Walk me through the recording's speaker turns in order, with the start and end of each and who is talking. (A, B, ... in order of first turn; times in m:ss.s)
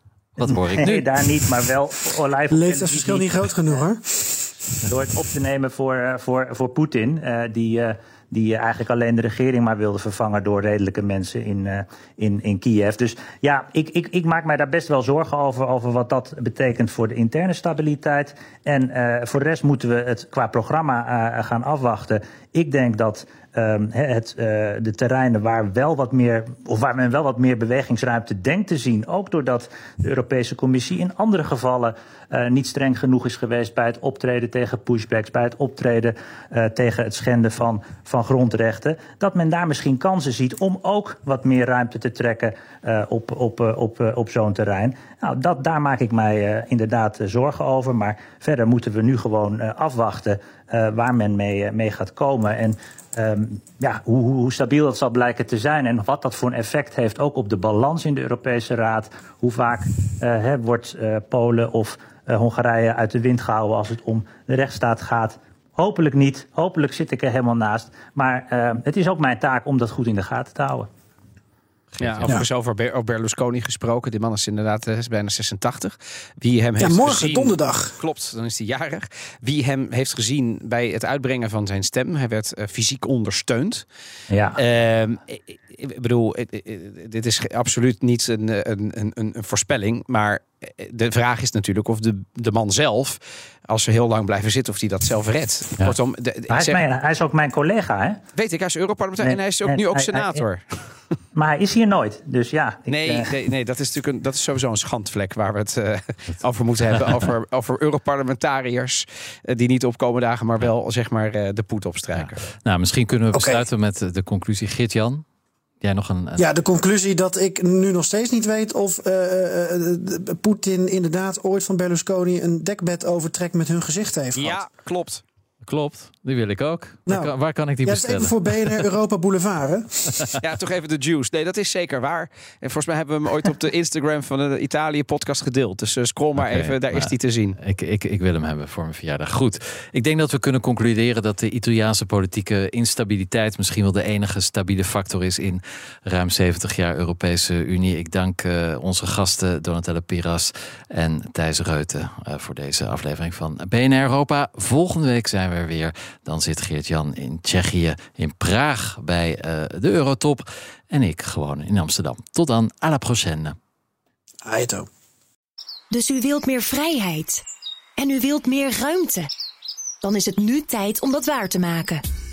0:00.4-0:01.0 A
0:00.4-0:03.8 B
0:02.5-0:04.7 C
0:04.8-1:10.9 B
1:11.9-1:12.4 A
1:12.0-1:23.8 D
1:16.8-1:18.0 C
1:24.3-1:24.6 B
1:24.6-1:36.8 D
1:36.5-1:38.2 B
1:38.4-1:40.6 D
1:39.2-1:40.4 B
1:41.3-1:43.3 B
1:42.9-1:52.4 D
1:52.2-1:55.2 A
1:53.3-1:53.6 C
1:55.8-1:56.5 A
1:56.4-2:04.6 C
2:04.3-2:05.2 D
2:05.6-2:08.8 A
2:07.1-2:10.4 C
2:10.4-2:17.6 D
2:16.4-2:43.6 A
2:44.4-2:44.9 C
2:45.9-2:47.4 E
2:48.0-2:49.3 E
2:50.0-2:52.0 E